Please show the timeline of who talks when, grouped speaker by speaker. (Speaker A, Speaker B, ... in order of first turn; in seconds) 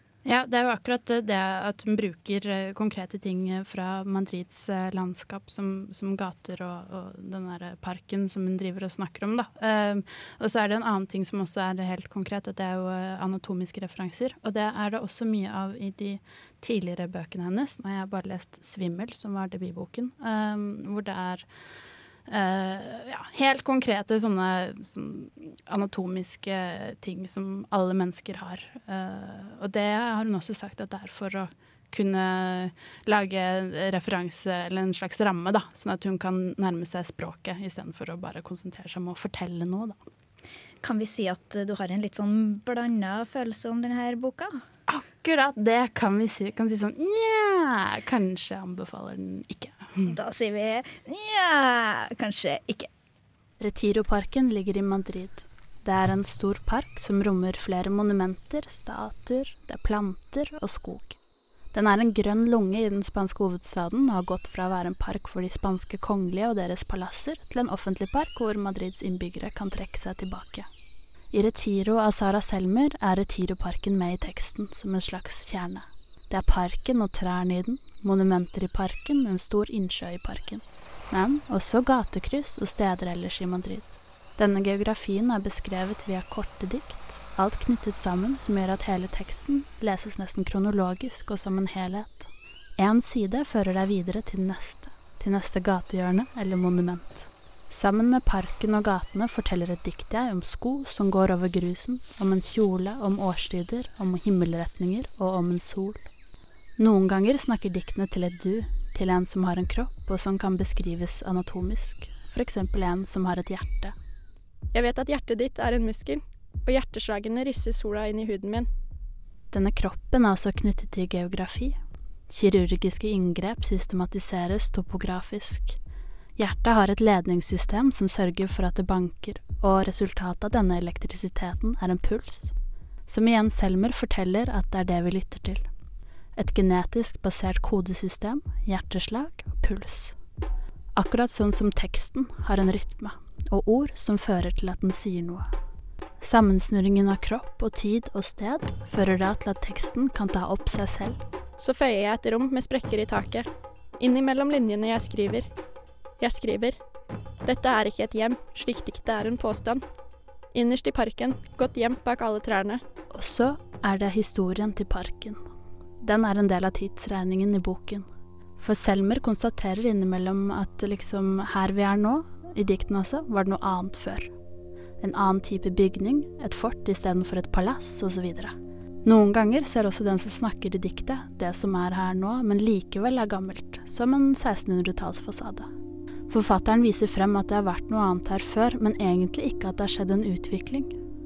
Speaker A: 0.2-21.4, 22.3-40.0, 44.9-50.1, 53.6-61.2, 61.7-70.7, 71.3-106.0, 106.8-113.9, 119.5-121.8, 122.3-125.8, 126.4-132.5, 133.1-135.7, 136.3-140.2, 140.9-145.5, 146.2-151.2, 163.1-165.4, 166.0-174.3, 175.0-178.5, 179.0-185.7, 186.3-190.9
Speaker B: 40.8-44.6, 50.0-52.9
Speaker C: 114.7-118.7, 151.6-153.5, 154.0-155.5, 156.2-156.8, 157.4-159.8, 160.5-162.8